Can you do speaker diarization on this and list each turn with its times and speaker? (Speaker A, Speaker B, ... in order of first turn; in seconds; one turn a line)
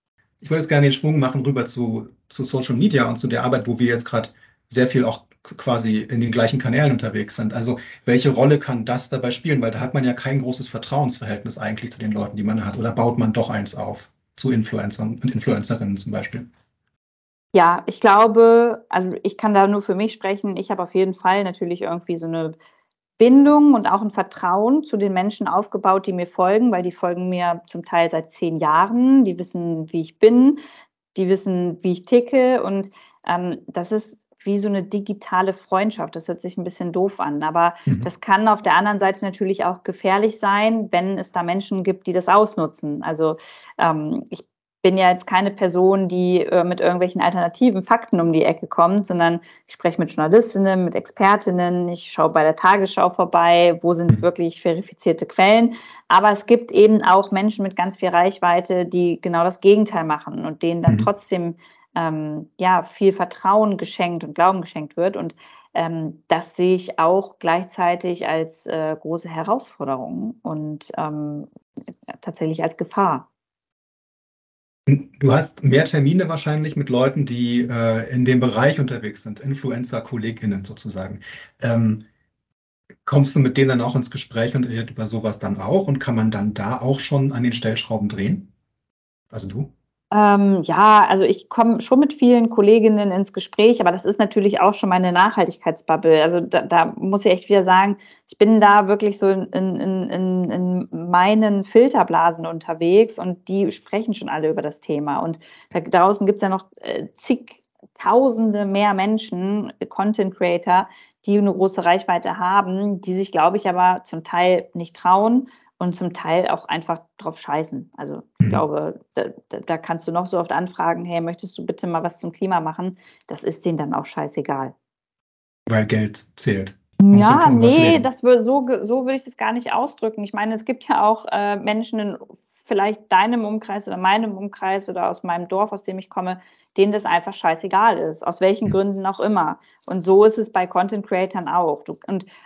Speaker A: 0.4-16.5
Speaker B: 17.5-22.6
Speaker B: 23.2-30.6
Speaker B: 31.1-71.5
Speaker B: 72.2-73.3
Speaker A: 74.9-82.0
Speaker A: 83.0-88.5
Speaker A: 89.3-89.7
Speaker B: 90.1-124.7
Speaker A: 125.7-128.0
Speaker B: 127.0-142.3